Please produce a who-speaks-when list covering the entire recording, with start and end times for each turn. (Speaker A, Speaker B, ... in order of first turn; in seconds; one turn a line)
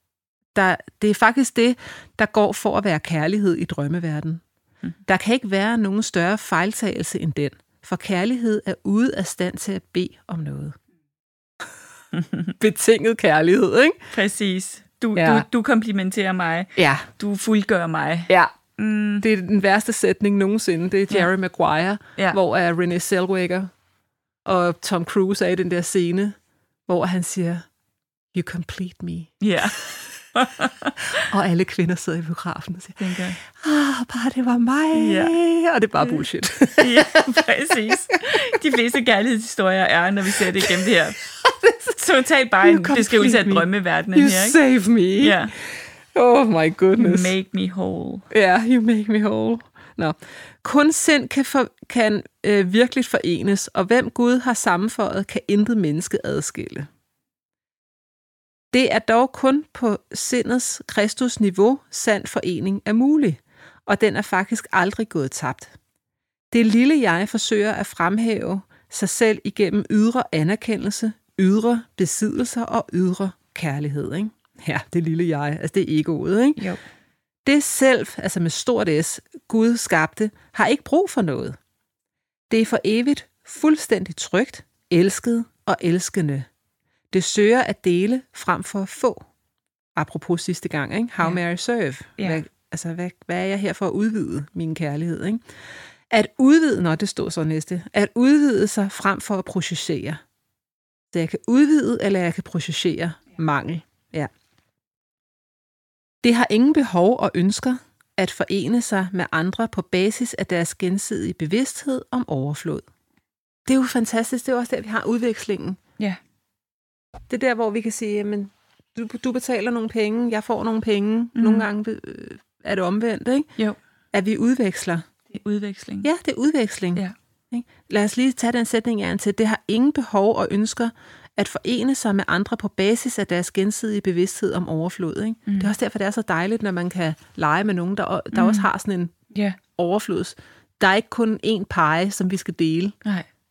Speaker A: 0.5-4.4
Speaker A: 5.1-10.8
Speaker B: 12.1-12.5
Speaker A: 12.6-14.0
Speaker B: 14.1-19.2
Speaker A: 15.2-15.4
Speaker A: 16.8-17.1
Speaker A: 19.2-23.7
Speaker A: 24.4-26.3
Speaker A: 26.9-27.6
Speaker A: 28.3-29.3
Speaker B: 29.4-31.3
Speaker A: 31.1-37.4
Speaker B: 33.0-33.4
Speaker B: 34.9-35.4
Speaker B: 36.8-41.2
Speaker A: 40.6-42.0
Speaker B: 41.9-44.6
Speaker A: 42.6-45.4
Speaker B: 45.2-45.5
Speaker A: 46.1-47.3
Speaker B: 47.0-48.2
Speaker A: 48.3-56.9
Speaker A: 58.7-65.7
Speaker A: 66.5-76.6
Speaker A: 77.4-81.5
Speaker A: 82.5-86.5
Speaker A: 87.1-89.2
Speaker A: 90.0-95.4
Speaker A: 96.1-100.2
Speaker A: 101.1-104.3
Speaker A: 106.2-112.8
Speaker A: 113.7-115.8
Speaker A: 117.3-123.5
Speaker B: 121.3-121.7
Speaker A: 124.1-125.0
Speaker B: 125.3-126.1
Speaker A: 126.0-139.1
Speaker B: 135.5-135.7
Speaker B: 138.3-138.7
Speaker A: 139.8-142.9